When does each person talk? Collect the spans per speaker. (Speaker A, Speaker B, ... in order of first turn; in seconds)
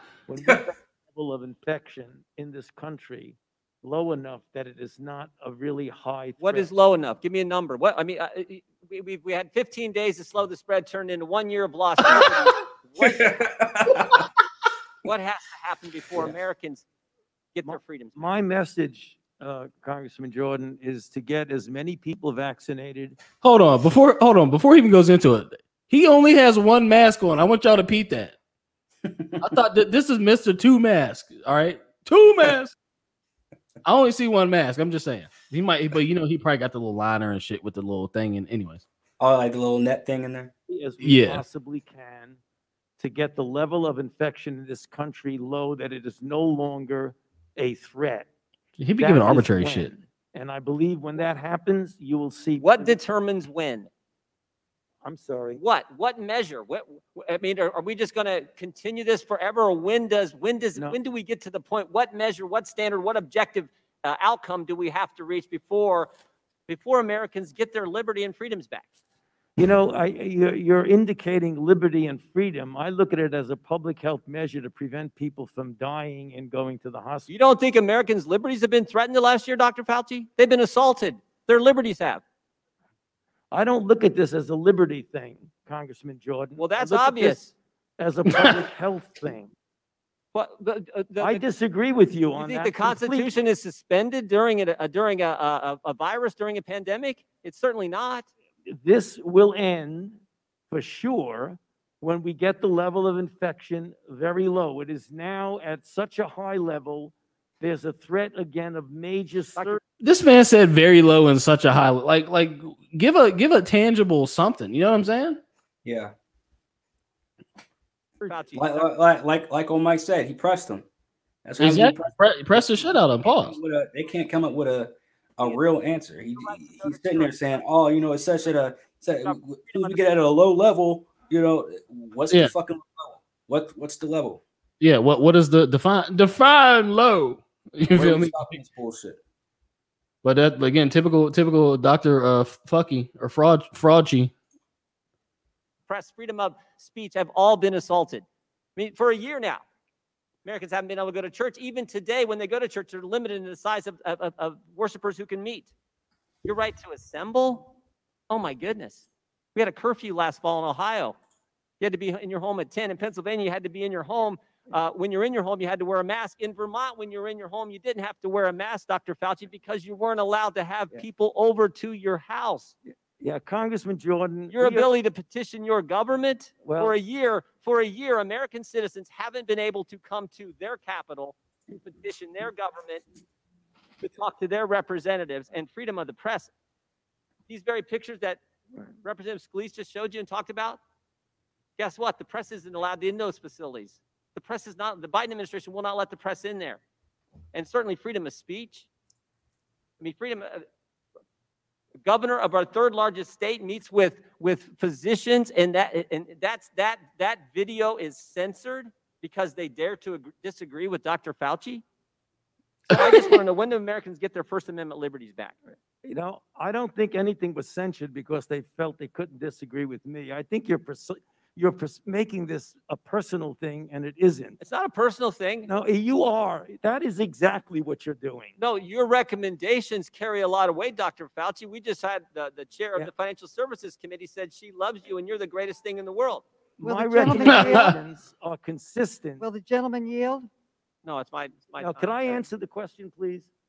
Speaker A: 0.3-6.7, 17.6-23.2, 40.7-42.4, 43.0-48.3, 49.0-53.0, 55.0-55.6, 69.6-77.3, 83.5-87.5, 88.0-89.5, 91.2-93.3, 98.7-100.2, 100.7-109.8, 118.2-118.6, 172.9-174.9, 176.6-176.9, 212.9-213.4, 216.0-224.6, 225.6-228.6, 236.8-239.4, 241.8-243.5
Speaker B: 6.4-13.4, 15.0-16.9, 17.5-18.2, 52.6-53.9, 55.5-66.1, 66.7-68.8, 77.3-82.2, 86.6-87.5, 90.3-91.4, 92.3-98.3, 118.2-118.8, 126.5-127.2, 129.2-130.0, 145.9-148.2, 148.8-149.6, 150.4-155.7, 156.4-157.7, 158.3-161.2, 161.8-172.7, 174.5-183.0, 184.0-186.5, 187.5-188.4, 189.0-190.8, 191.8-196.8, 197.5-198.8, 200.0-200.6, 202.0-211.8, 212.9-215.6, 224.6-225.7, 228.6-236.4, 241.0-242.4
Speaker C: 13.0-14.2, 29.1-29.4, 39.2-40.5, 115.8-116.1, 118.5-120.8, 121.4-134.4, 137.9-139.2
Speaker D: 23.4-28.4, 29.4-32.8, 33.8-38.8, 41.0-41.4, 48.8-49.9, 110.0-115.4, 121.6-123.6, 134.8-138.4, 140.2-144.3, 237.4-237.9
Speaker E: 236.8-238.0, 239.4-240.5